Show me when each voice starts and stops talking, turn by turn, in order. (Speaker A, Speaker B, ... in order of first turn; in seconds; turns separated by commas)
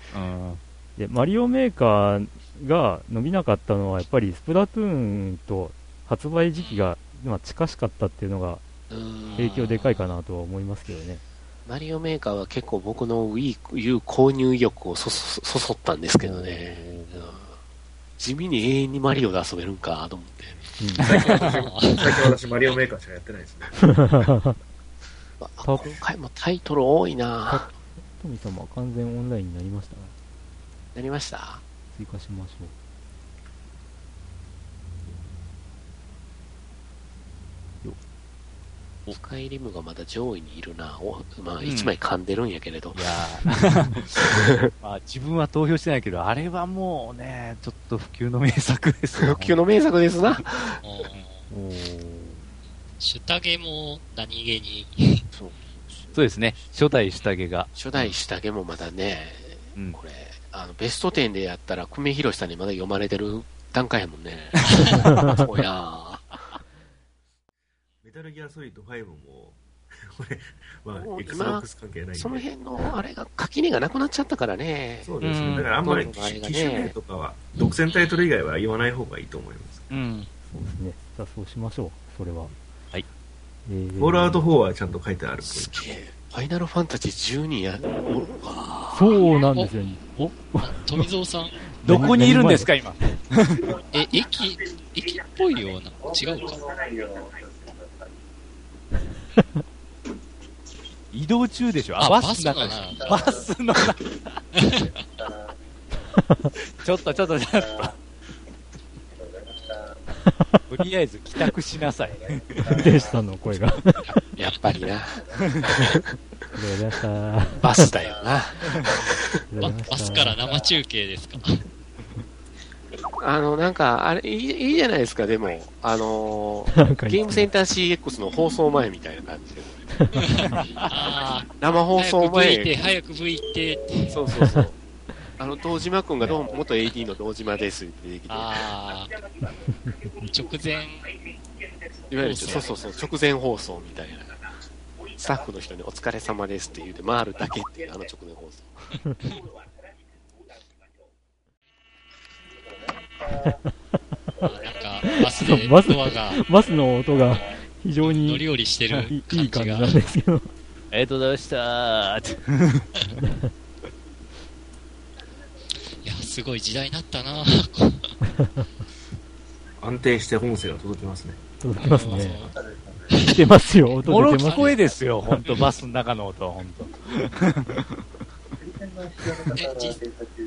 Speaker A: 0.1-0.6, Speaker B: 1.0-8.6, Speaker C: 6.6-6.9, Speaker D: 8.9-9.8, Speaker C: 9.2-10.0, Speaker B: 9.4-11.2, Speaker D: 11.7-17.5, Speaker A: 16.2-17.3, Speaker D: 18.2-20.6, Speaker B: 20.8-21.1, Speaker E: 21.0-23.8, Speaker C: 21.1-22.8, Speaker B: 23.8-24.6, Speaker D: 25.4-27.7, Speaker B: 25.6-26.0, Speaker B: 27.5-30.1, Speaker D: 30.9-31.6, Speaker B: 31.9-32.7, Speaker D: 39.1-43.1, Speaker A: 41.6-41.9, Speaker A: 42.9-44.2, Speaker D: 44.2-44.7, Speaker A: 44.8-49.6, Speaker D: 49.2-50.8, Speaker C: 50.8-51.5, Speaker B: 51.5-52.4, Speaker C: 53.0-55.2, Speaker A: 56.1-58.1, Speaker D: 57.8-66.4, Speaker E: 68.0-72.5, Speaker D: 70.9-75.1, Speaker E: 75.0-79.9, Speaker A: 75.2-75.8, Speaker D: 75.8-77.0, Speaker A: 79.9-80.3, Speaker B: 80.5-82.5, Speaker B: 83.7-84.5, Speaker E: 84.0-85.8, Speaker D: 85.4-89.2, Speaker B: 88.9-91.1, Speaker C: 89.4-91.7, Speaker B: 91.8-93.1, Speaker A: 91.8-93.8, Speaker C: 93.9-96.7, Speaker A: 101.1-104.4, Speaker C: 102.0-103.3, Speaker C: 104.5-104.9, Speaker B: 106.1-106.5, Speaker A: 106.7-108.0, Speaker B: 110.2-110.7, Speaker A: 110.7-113.0, Speaker B: 112.7-113.8, Speaker D: 114.2-116.1, Speaker A: 115.4-115.8, Speaker B: 116.5-117.9, Speaker D: 117.6-119.3, Speaker B: 119.5-120.4, Speaker C: 119.9-121.6, Speaker D: 123.2-129.8, Speaker B: 126.8-127.5, Speaker B: 130.0-130.7, Speaker C: 130.1-134.3, Speaker D: 131.6-132.8, Speaker D: 134.1-134.8, Speaker B: 134.4-134.7, Speaker D: 135.4-138.8, Speaker C: 138.3-139.2, Speaker B: 139.7-140.0, Speaker C: 140.2-141.2, Speaker D: 142.1-144.4, Speaker C: 142.2-142.8, Speaker D: 145.2-148.8, Speaker C: 154.4-156.4, Speaker B: 155.1-160.5, Speaker C: 158.0-160.0, Speaker A: 160.9-162.9, Speaker B: 163.2-163.5, Speaker C: 166.0-168.1, Speaker B: 168.4-168.7, Speaker E: 169.8-171.4, Speaker B: 171.6-172.5, Speaker C: 171.8-172.6, Speaker C: 173.1-173.4, Speaker B: 173.2-174.8, Speaker A: 174.1-177.8, Speaker C: 174.5-174.7, Speaker C: 179.5-180.1